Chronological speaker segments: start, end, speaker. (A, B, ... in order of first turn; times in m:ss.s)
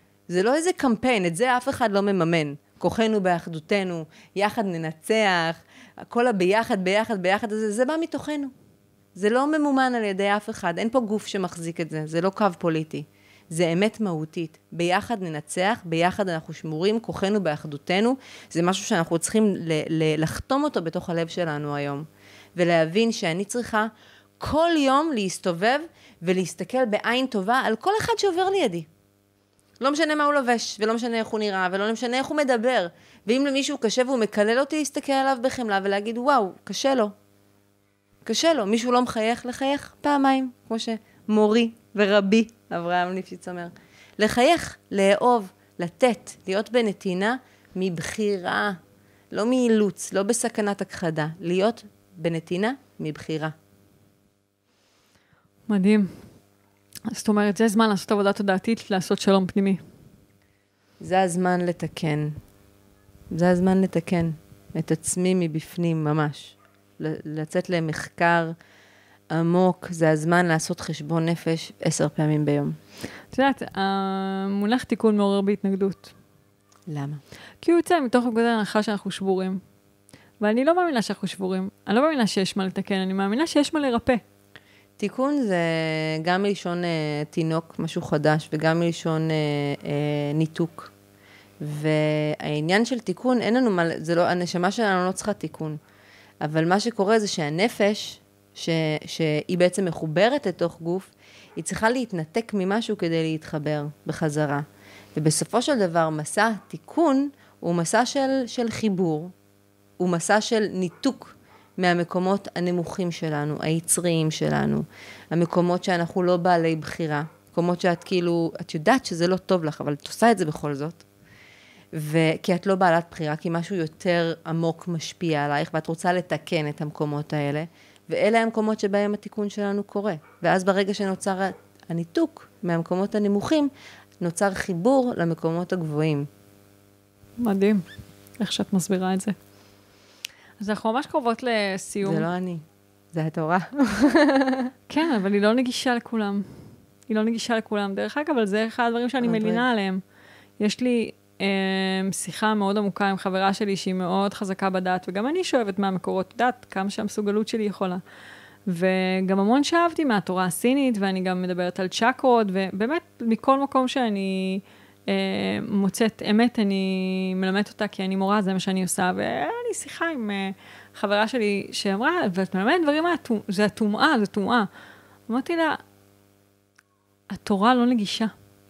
0:00.3-0:08.5 A
0:09.2-0:28.9 A
0:29.8-0:37.1 A
0:38.3-0:48.8 A
0:49.3-0:53.5 A
0:55.7-0:56.2 B
0:57.1-0:59.8 B
1:01.0-1:02.4 A
1:03.3-1:08.6 A
1:09.3-1:12.8 A
1:13.3-1:16.1 B
1:16.9-1:17.2 A
1:17.6-1:19.6 B
1:20.4-1:24.2 B
1:25.0-1:30.9 A
1:31.6-1:35.8 A
1:36.4-1:44.6 A
1:45.2-1:49.3 A
1:50.0-2:01.0 A
2:01.9-2:13.7 A
2:14.2-2:16.3 A
2:17.4-2:17.8 B
2:18.4-2:19.4 B
2:20.6-2:22.3 B
2:22.0-2:24.7 A
2:24.9-2:30.0 B
2:29.2-2:29.6 A
2:30.6-2:38.0 B
2:38.7-2:54.7 B
2:55.3-2:55.8 B
2:57.3-2:58.3 B